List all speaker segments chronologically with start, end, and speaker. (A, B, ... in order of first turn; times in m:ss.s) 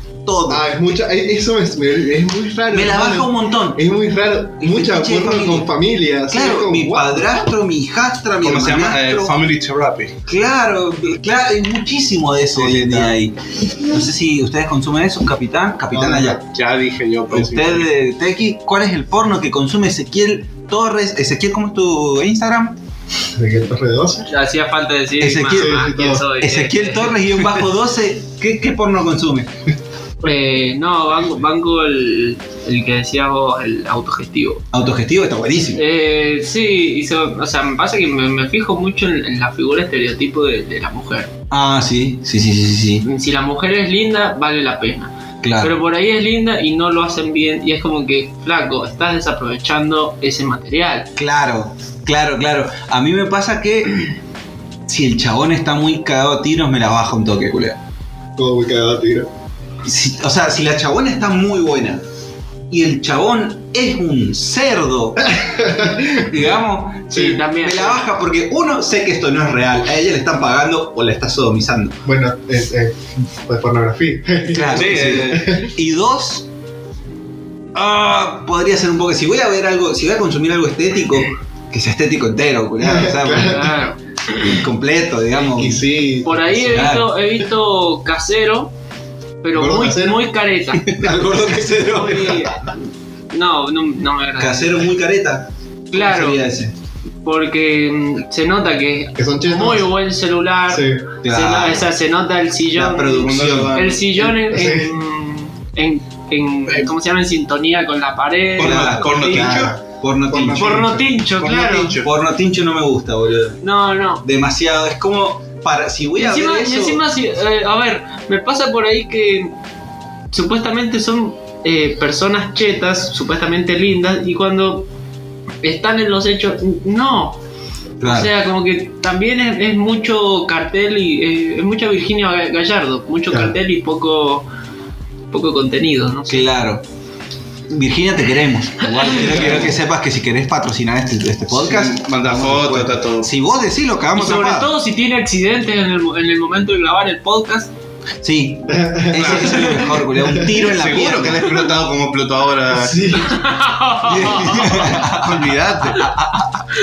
0:00.2-0:00.6 A
0:00.5-0:07.4 B
0:02.7-0:03.8 A
0:04.6-0:05.7 A
0:06.3-0:09.3 A
0:08.4-0:10.2 C
0:10.3-0:16.4 A
0:12.6-0:13.1 B
0:15.9-0:16.4 B
0:16.5-0:17.9 C
0:17.3-0:22.8 A
0:23.3-0:24.3 B
0:24.3-0:27.2 D
0:25.2-0:29.5 A
0:25.5-0:26.2 B
0:30.2-0:34.6 D
0:34.7-0:35.8 A
0:35.7-0:41.3 D
0:41.5-0:43.0 A
0:43.0-0:51.1 D
0:45.4-0:45.8 A
0:51.2-0:54.1 A
0:54.9-0:57.8 A
0:58.4-0:59.3 B
0:59.8-1:02.0 A
1:02.7-1:05.3 A
1:05.3-1:06.3 B
1:06.2-1:12.0 A
1:07.1-1:08.0 D
1:12.0-1:15.7 B
1:14.5-1:16.5 A
1:14.7-1:15.6 C
1:17.7-1:23.7 A
1:22.8-1:23.7 B
1:23.4-1:24.5 D
1:24.3-1:25.8 A
1:25.5-1:26.5 B
1:26.2-1:28.7 D
1:26.6-1:27.2 A
1:29.4-1:30.9 D
1:29.5-1:30.2 B
1:30.8-1:32.6 A
1:31.6-1:32.7 D
1:33.3-1:34.9 D
1:34.4-1:36.7 A
1:35.9-1:36.4 D
1:37.2-1:49.5 D
1:39.2-1:39.9 B
1:40.7-1:41.1 B
1:41.2-1:41.9 A
1:42.7-1:43.8 A
1:43.2-1:44.3 C
1:44.5-1:44.9 B
1:48.6-1:49.7 C
1:48.6-1:51.0 A
1:49.5-1:49.8 B
1:50.3-1:50.9 B
1:50.5-1:52.0 D
1:51.3-1:52.1 C
1:52.0-1:53.6 A
1:53.6-1:54.2 D
1:54.2-1:57.0 A
1:56.2-1:59.5 D
2:00.3-2:04.9 D
2:05.6-2:07.4 D
2:08.0-2:08.3 A
2:08.0-2:14.5 D
2:13.3-2:13.6 B
2:15.3-2:16.5 D
2:16.3-2:16.8 A
2:17.7-2:24.7 A
2:19.2-2:19.7 C
2:21.5-2:23.3 C
2:24.1-2:27.7 D
2:28.2-2:31.7 A
2:28.7-2:30.6 B
2:29.1-2:30.0 C
2:30.7-2:33.2 C
2:32.7-2:33.4 B
2:33.1-2:34.9 D
2:34.0-2:36.4 A
2:34.6-2:36.2 C